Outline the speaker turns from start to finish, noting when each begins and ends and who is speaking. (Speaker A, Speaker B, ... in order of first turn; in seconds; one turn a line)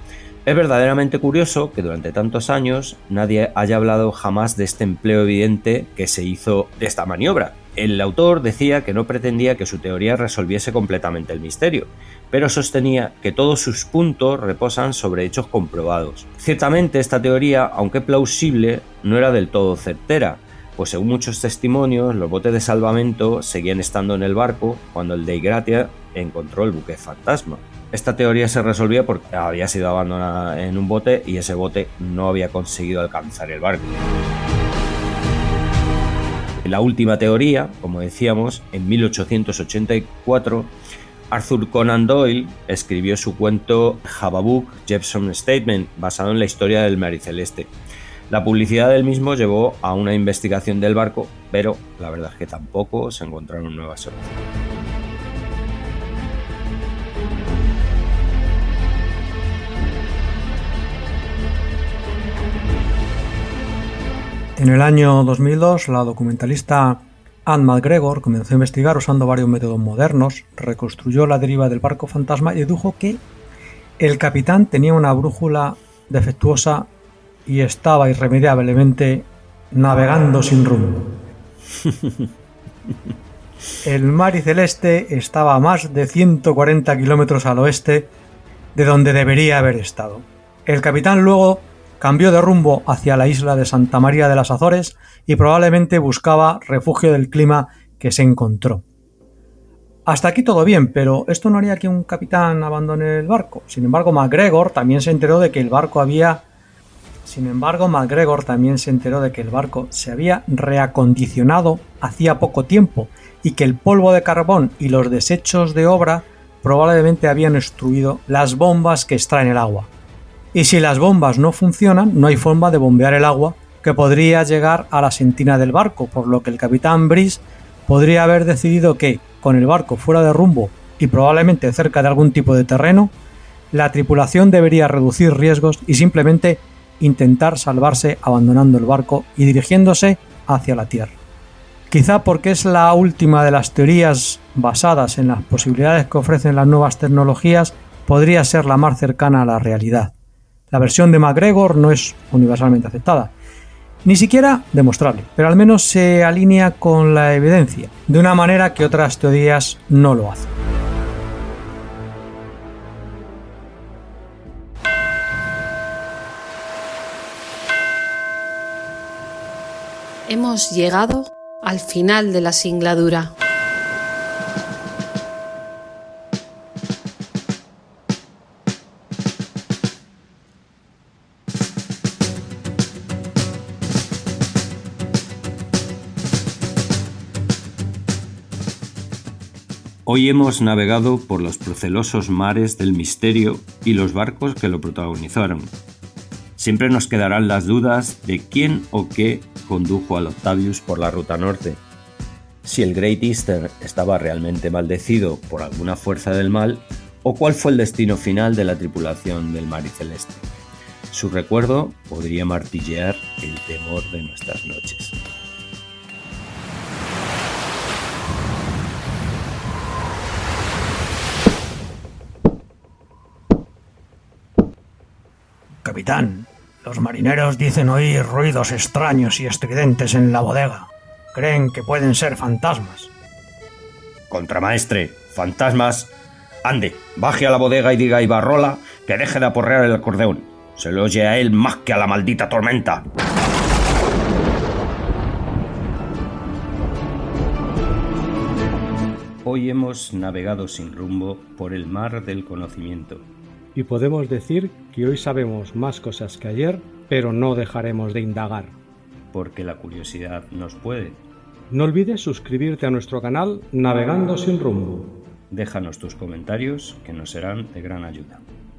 Speaker A: 0.5-34.0
Speaker A: 36.6-40.7
Speaker A: 41.3-47.7
Speaker A: 48.3-54.4
Speaker B: 64.6-73.2
Speaker B: 74.0-76.9
Speaker B: 77.5-81.2
Speaker B: 83.8-88.1
Speaker B: 88.8-98.8
Speaker B: 100.1-106.5
Speaker B: 107.2-119.9
Speaker B: 120.5-133.1
Speaker B: 133.7-141.2
Speaker B: 141.9-150.1
Speaker B: 150.7-153.3
Speaker B: 154.1-160.5
Speaker C: 170.3-173.3
Speaker A: 190.1-195.7
Speaker A: 196.6-201.8
Speaker A: 202.6-210.5
Speaker A: 211.1-215.2
Speaker B: 225.8-233.1
Speaker A: 234.3-236.1
Speaker A: 236.6-243.1
Speaker A: 249.4-253.3
Speaker D: 253.8-258.8
Speaker A: 259.3-261.2
Speaker D: 261.7-265.1
Speaker A: 265.5-268.4